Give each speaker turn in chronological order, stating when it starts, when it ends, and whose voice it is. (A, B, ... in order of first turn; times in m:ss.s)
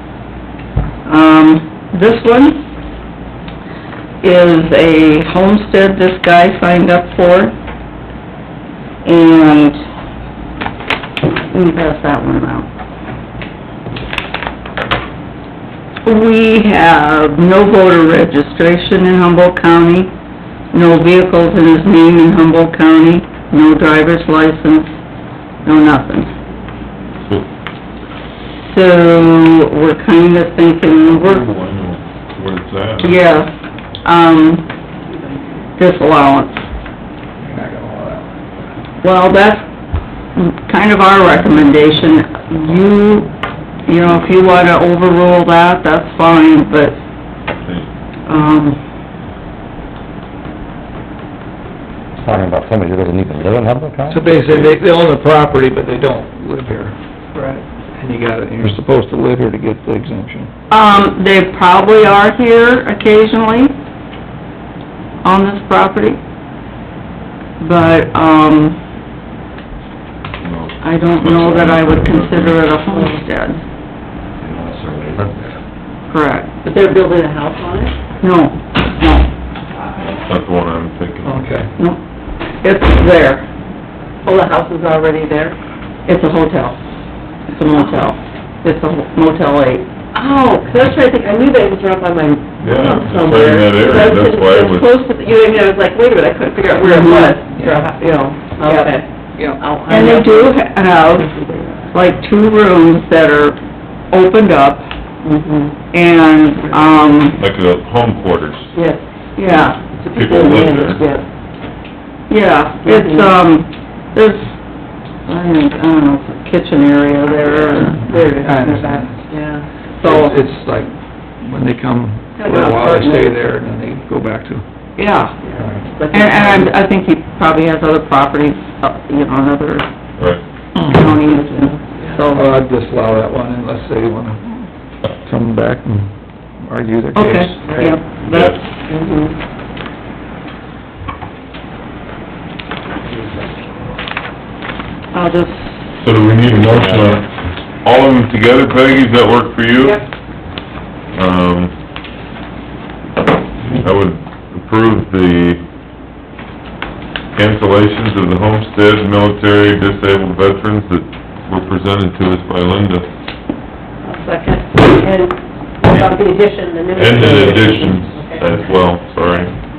0:01.0-0:02.6 A
0:04.2-0:07.5 A
0:09.0-0:09.8 A
0:11.2-0:12.7 A
0:16.0-0:20.1 A
0:20.7-0:25.0 A
0:25.6-0:26.3 A
0:28.6-0:31.5 A
0:31.2-0:33.2 B
0:33.0-0:33.5 A
0:34.0-0:34.7 A
0:35.8-0:36.6 A
0:37.4-0:38.3 C
0:39.0-0:39.7 A
0:40.4-0:43.3 A
0:43.8-0:47.0 A
0:47.6-0:47.9 B
0:48.3-0:48.8 A
0:52.2-0:54.4 D
0:54.1-0:57.0 C
0:57.3-0:57.6 E
0:57.9-1:00.5 C
1:00.7-1:03.7 A
1:05.2-1:06.2 A
1:07.6-1:08.8 A
1:10.4-1:12.6 B
1:10.8-1:13.6 A
1:12.9-1:13.2 E
1:14.4-1:15.5 D
1:16.1-1:16.5 A
1:16.6-1:17.9 E
1:18.2-1:19.3 A
1:20.2-1:21.4 B
1:21.2-1:21.7 C
1:22.6-1:23.4 A
1:24.2-1:25.6 E
1:26.0-1:26.8 A
1:27.5-1:29.8 A
1:27.7-1:28.1 E
1:30.1-1:41.9 E
1:32.6-1:34.9 B
1:36.8-1:37.3 A
1:37.6-1:37.8 C
1:38.6-1:38.9 A
1:39.9-1:41.4 A
1:41.9-1:43.6 A
1:44.1-1:44.9 A
1:45.2-1:45.8 E
1:45.9-1:47.4 A
1:47.4-1:48.7 B
1:48.7-1:49.0 E
1:49.4-1:49.8 A
1:50.0-1:51.0 B
1:50.0-1:51.2 E
1:52.3-1:54.6 A
1:52.8-1:53.3 E
1:55.2-1:59.0 A
1:57.3-1:59.6 E
1:58.3-1:59.2 C
2:00.0-2:00.4 A
2:00.0-2:04.6 C
2:02.4-2:03.2 A
2:05.0-2:06.8 E
2:05.0-2:05.3 A
2:05.6-2:05.8 C
2:06.1-2:09.9 A
2:10.7-2:11.0 C
2:10.8-2:12.6 A
2:11.0-2:12.2 E
2:12.3-2:14.4 C
2:15.2-2:17.9 C
2:17.1-2:18.6 A
2:17.6-2:18.0 E
2:18.2-2:18.6 B
2:18.9-2:19.3 E
2:23.0-2:23.4 E
2:25.1-2:25.8 A
2:26.0-2:27.3 B
2:27.8-2:30.0 B
2:31.1-2:31.7 B
2:33.8-2:35.6 B
2:37.4-2:43.0 B
2:44.0-2:48.4 E
2:46.9-2:49.5 B